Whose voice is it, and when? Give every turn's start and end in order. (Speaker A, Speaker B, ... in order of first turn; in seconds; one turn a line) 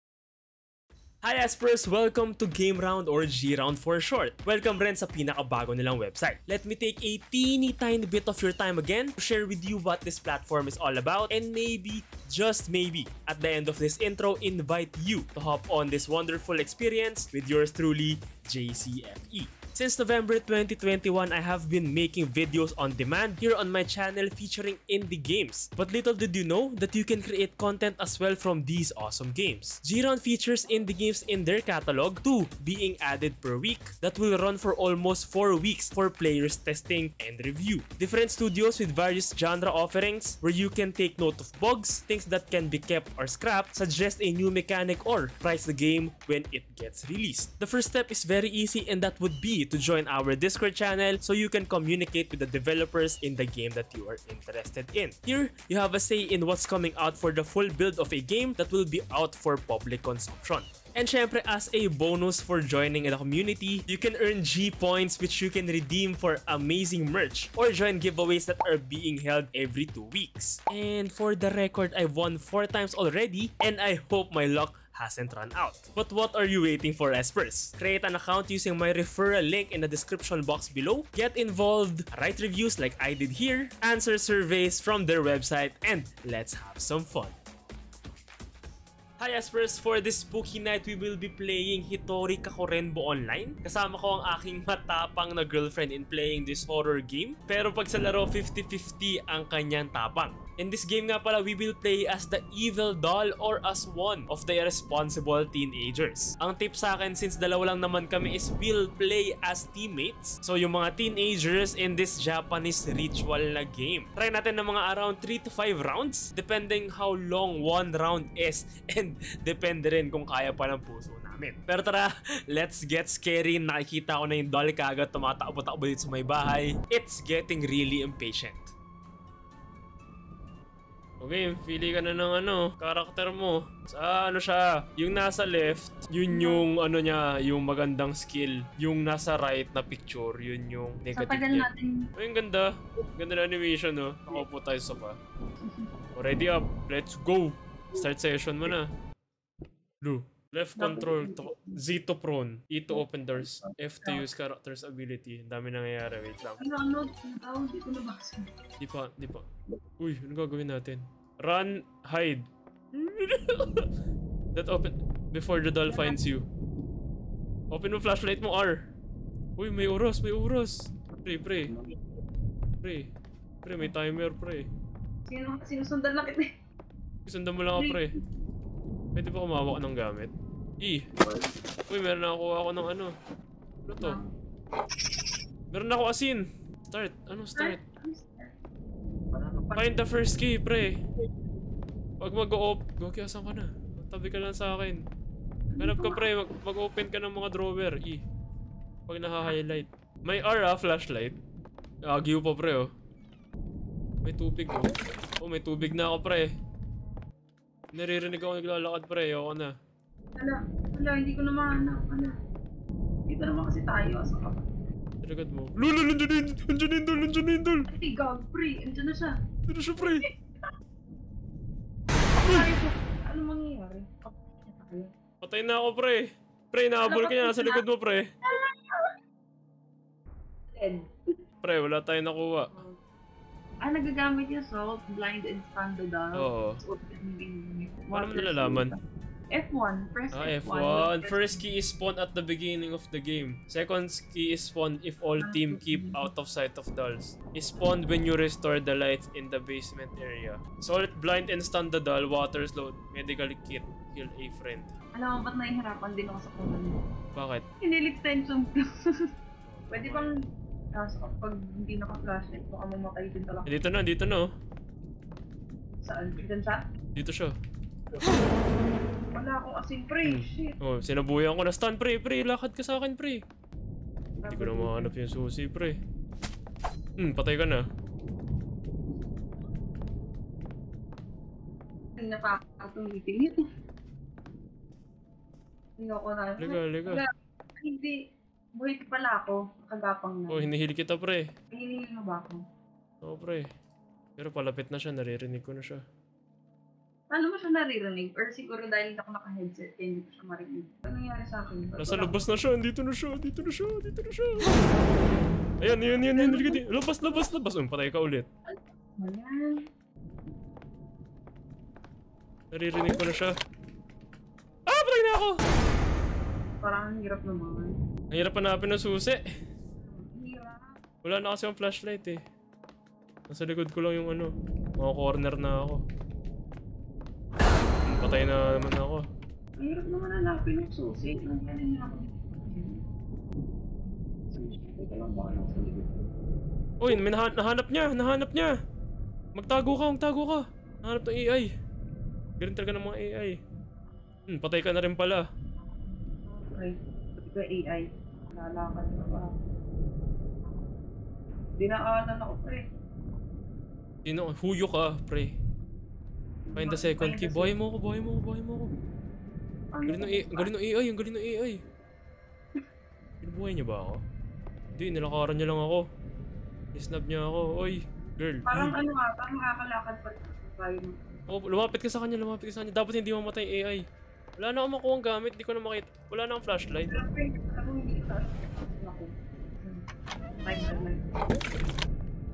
Speaker A: 1.2-87.3
Speaker A: 89.2-128.7
Speaker A: 131.2-145.2
Speaker B: 136.3-136.7
Speaker B: 141.1-142.1
Speaker B: 145.6-145.9
Speaker A: 146.2-148.9
Speaker A: 150.0-156.6
Speaker B: 150.8-151.8
Speaker B: 152.9-154.3
Speaker B: 156.6-158.5
Speaker A: 158.8-159.5
Speaker A: 160.0-163.9
Speaker A: 164.5-166.5
Speaker B: 165.9-166.2
Speaker A: 167.7-168.9
Speaker A: 169.6-171.7
Speaker B: 171.7-172.0
Speaker A: 172.8-173.1
Speaker A: 173.6-174.7
Speaker B: 175.2-176.5
Speaker A: 177.3-178.2
Speaker B: 177.7-178.2
Speaker A: 179.2-181.1
Speaker B: 181.2-181.5
Speaker A: 181.9-183.1
Speaker A: 183.9-184.2
Speaker B: 184.0-184.3
Speaker A: 185.7-187.8
Speaker B: 187.6-188.5
Speaker B: 189.3-190.0
Speaker A: 189.8-191.0
Speaker A: 192.2-195.1
Speaker B: 195.7-196.3
Speaker A: 195.8-198.2
Speaker A: 199.1-201.4
Speaker A: 202.1-202.9
Speaker A: 204.2-206.6
Speaker A: 207.9-209.8
Speaker B: 210.4-212.4
Speaker B: 213.3-214.7
Speaker A: 215.2-217.9
Speaker B: 217.9-219.4
Speaker A: 219.7-220.3
Speaker B: 220.0-220.3
Speaker B: 222.4-225.1
Speaker A: 222.4-222.7
Speaker A: 225.4-228.3
Speaker B: 227.0-227.8
Speaker B: 228.5-229.1
Speaker B: 230.7-231.2
Speaker A: 231.6-232.8
Speaker B: 232.7-233.0
Speaker B: 233.8-239.0
Speaker A: 236.3-236.8
Speaker A: 238.1-238.9
Speaker B: 239.5-241.6
Speaker A: 240.3-254.9
Speaker B: 245.4-246.3
Speaker B: 255.2-257.0
Speaker A: 257.4-257.7
Speaker B: 257.8-259.3
Speaker A: 259.7-260.3
Speaker B: 259.9-260.4
Speaker B: 260.9-263.7
Speaker A: 263.7-264.5
Speaker B: 266.0-266.9
Speaker A: 267.1-267.6
Speaker B: 269.3-270.8
Speaker A: 270.2-273.4
Speaker B: 274.4-275.1
Speaker A: 274.5-276.0
Speaker A: 277.2-277.9
Speaker B: 282.2-283.7
Speaker B: 286.0-288.2
Speaker A: 286.6-287.2
Speaker B: 288.8-290.7
Speaker A: 290.5-291.5
Speaker B: 291.7-292.6
Speaker A: 293.2-293.7
Speaker A: 294.4-296.0
Speaker B: 297.3-302.4
Speaker A: 302.0-304.8
Speaker A: 305.8-308.5
Speaker B: 305.9-307.0
Speaker B: 309.2-309.8
Speaker A: 312.7-313.5
Speaker A: 314.9-315.6
Speaker B: 316.8-317.9
Speaker A: 318.3-319.4
Speaker B: 320.0-320.9
Speaker A: 321.2-322.4
Speaker A: 323.5-326.0
Speaker A: 328.1-329.3
Speaker B: 328.2-328.9
Speaker B: 329.8-333.0
Speaker B: 334.5-336.3
Speaker A: 337.0-338.8
Speaker A: 339.6-341.7
Speaker A: 342.6-343.6
Speaker A: 344.5-345.5
Speaker B: 346.5-349.6
Speaker B: 351.8-352.9
Speaker A: 354.2-355.6
Speaker B: 356.7-357.7
Speaker A: 356.8-358.9
Speaker B: 359.9-360.7
Speaker A: 360.1-361.8
Speaker A: 363.4-364.2
Speaker A: 365.0-366.1
Speaker A: 366.9-368.9
Speaker B: 368.6-371.2
Speaker A: 371.5-374.1
Speaker A: 374.6-377.2
Speaker B: 377.1-380.1
Speaker B: 380.6-381.3